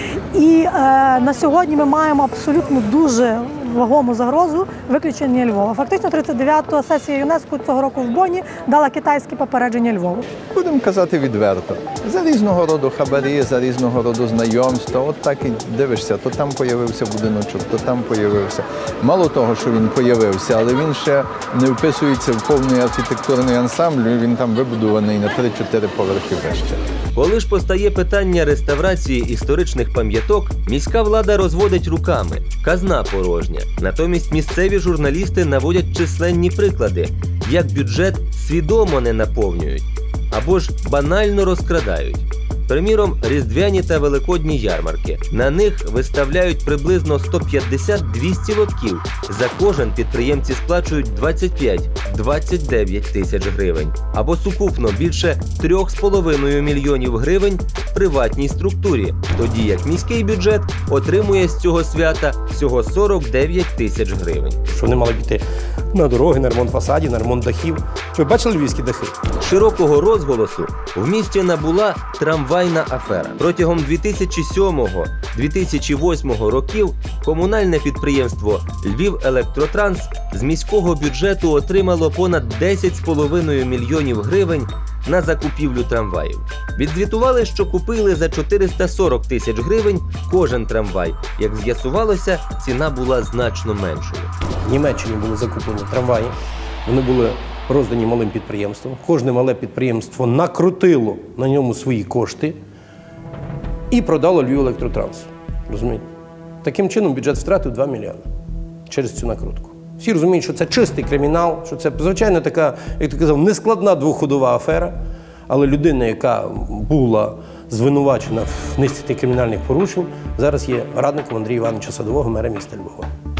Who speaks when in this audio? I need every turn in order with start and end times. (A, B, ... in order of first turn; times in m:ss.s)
0:00.3-0:10.3 A
0:10.5-0:26.8 B
0:27.1-1:04.6 C
1:04.8-1:05.4 D
1:05.9-1:09.1 D
1:09.4-1:34.3 C
1:34.6-1:42.6 D
1:43.9-1:46.0 D
1:46.6-1:48.2 D
1:48.9-1:55.0 D
1:55.5-2:03.1 D